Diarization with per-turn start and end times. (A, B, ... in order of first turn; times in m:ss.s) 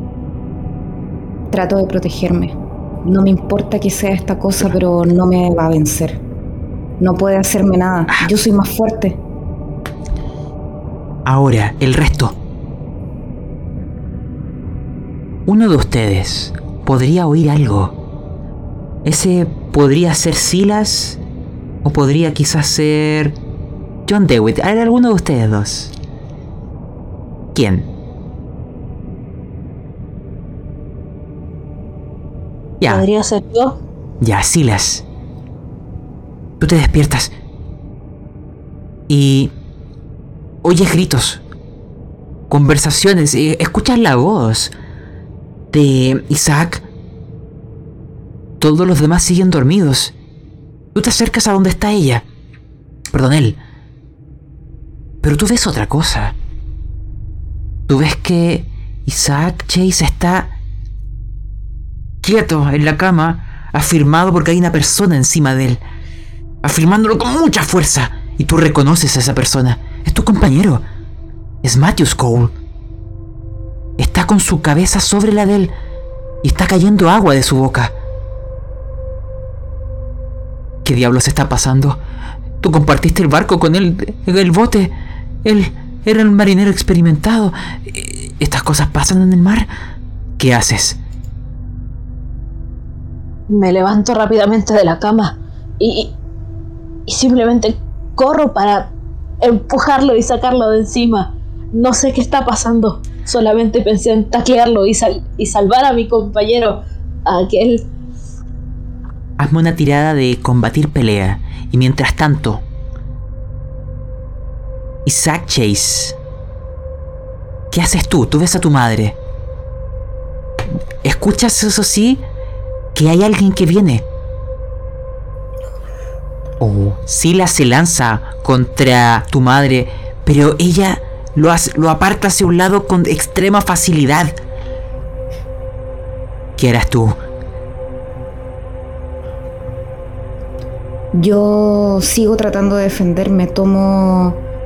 0:01.5-0:06.2 A
0:07.0-0:09.2 A
0:11.2-0:12.4 B
0:15.5-0:18.0 B
0:19.0-0:21.2 B
0:21.8-0:23.4 B
0:24.0-0:25.9 B
0:27.5-0:27.9 B
0:32.8-0:33.8 C
0:34.2-0:35.0 B
0:36.6-0:37.3 B
0:39.1-0:39.5 B
0:40.6-0:41.4 B
0:42.5-0:44.7 B
0:45.7-0:46.8 B
0:48.6-0:50.1 B
0:50.9-0:52.2 B
0:53.1-0:53.6 B
0:55.2-0:56.4 B
0:57.9-1:00.5 B
1:02.2-1:05.8 B
1:06.6-1:10.8 B
1:11.6-1:12.5 B
1:14.0-1:15.7 B
1:16.4-1:17.9 B
1:20.8-1:22.0 B
1:22.6-1:29.7 B
1:30.4-1:31.0 B
1:33.5-1:36.1 C
1:37.1-1:47.8 C
1:49.4-1:52.6 B
1:55.0-1:56.2 B
1:57.7-1:59.2 B
2:01.0-2:02.2 B
2:02.9-2:04.0 B
2:06.6-2:14.3 B
2:16.6-2:17.2 B
2:21.1-2:24.4 A